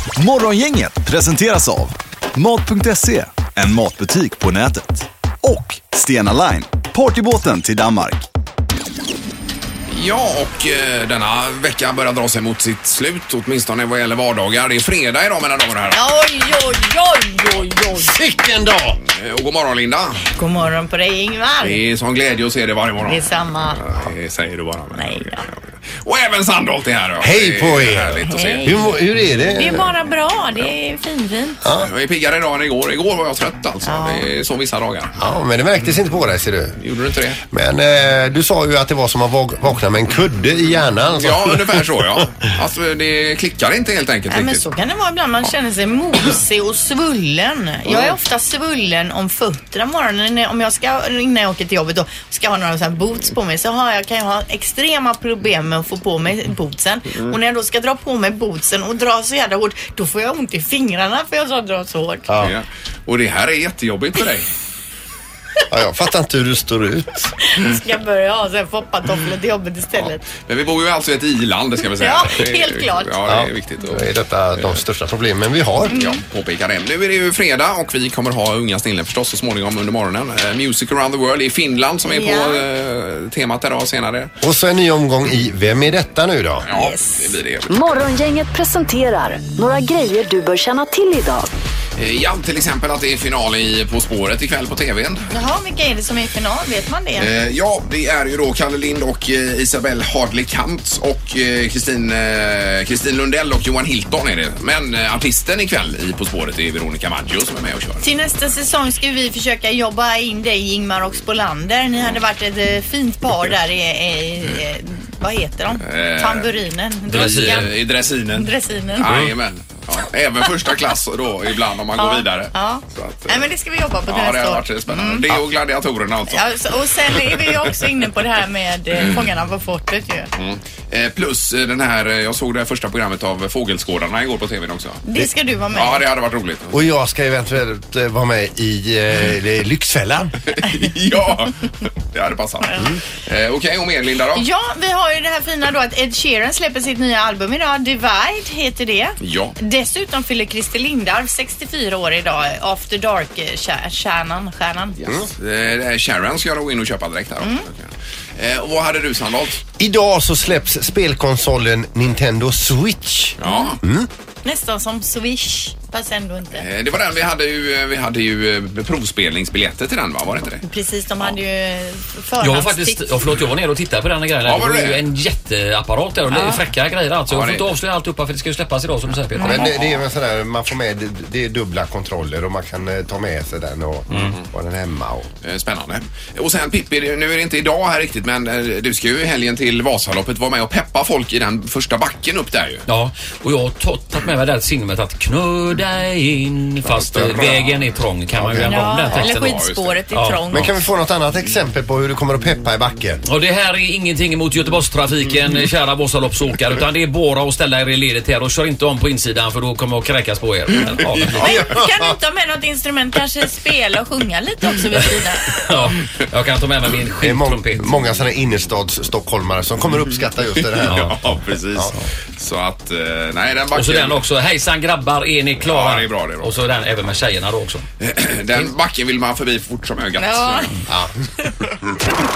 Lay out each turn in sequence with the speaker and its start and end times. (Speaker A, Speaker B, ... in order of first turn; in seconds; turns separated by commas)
Speaker A: 0.2-8.3, Speaker B: 9.9-16.1, Speaker C: 15.9-18.1, Speaker D: 18.0-19.0, Speaker B: 19.0-20.3, Speaker C: 20.4-21.8, Speaker B: 21.6-29.0, Speaker C: 23.0-23.8, Speaker C: 24.9-25.4, Speaker D: 27.2-29.9, Speaker C: 28.3-28.8, Speaker C: 29.6-31.6, Speaker D: 31.6-31.9, Speaker B: 31.8-35.1, Speaker C: 33.8-34.3, Speaker D: 35.2-36.8, Speaker B: 36.8-37.4, Speaker D: 37.5-42.3, Speaker B: 41.2-44.7, Speaker C: 44.3-62.3, Speaker B: 47.9-48.1, Speaker D: 62.3-62.5, Speaker B: 62.4-64.5, Speaker D: 65.7-67.3, Speaker C: 67.4-70.3, Speaker B: 70.4-74.8, Speaker C: 72.0-73.1, Speaker D: 73.3-76.0, Speaker C: 75.9-76.2, Speaker B: 75.9-84.3, Speaker C: 82.1-82.6, Speaker D: 84.4-86.7, Speaker B: 86.7-87.8, Speaker C: 86.7-87.3, Speaker E: 87.7-91.5, Speaker B: 92.0-95.3, Speaker C: 95.3-97.3, Speaker B: 97.2-108.0, Speaker C: 108.0-117.7, Speaker B: 115.8-116.5, Speaker F: 117.1-117.7, Speaker B: 117.1-123.5, Speaker C: 118.3-119.1, Speaker C: 122.0-125.3, Speaker B: 124.1-126.5, Speaker C: 126.3-130.3, Speaker B: 130.4-136.8, Speaker C: 135.1-136.1, Speaker D: 136.7-140.3, Speaker B: 140.5-144.4, Speaker C: 144.4-155.0, Speaker B: 149.2-149.6, Speaker B: 155.0-159.6, Speaker C: 157.4-157.7, Speaker D: 159.8-164.1, Speaker B: 163.4-163.8, Speaker C: 163.5-163.7, Speaker C: 164.4-166.7, Speaker B: 166.6-170.6, Speaker C: 170.6-173.1, Speaker F: 172.4-179.6, Speaker B: 174.4-175.0, Speaker C: 176.3-176.6, Speaker B: 177.3-177.7, Speaker C: 179.4-179.7, Speaker D: 179.4-185.3, Speaker F: 184.1-184.4, Speaker B: 185.4-192.8, Speaker F: 192.9-200.4, Speaker B: 197.1-197.7, Speaker D: 198.4-198.7, Speaker C: 198.7-200.8, Speaker B: 199.2-200.0, Speaker D: 200.5-203.2, Speaker F: 203.3-211.7, Speaker C: 211.4-215.6, Speaker D: 211.4-211.8, Speaker F: 215.5-217.9, Speaker D: 217.2-221.2, Speaker B: 220.6-224.2, Speaker F: 220.9-221.2, Speaker F: 223.8-227.8, Speaker B: 225.6-226.6, Speaker B: 228.0-230.7, Speaker C: 230.2-230.7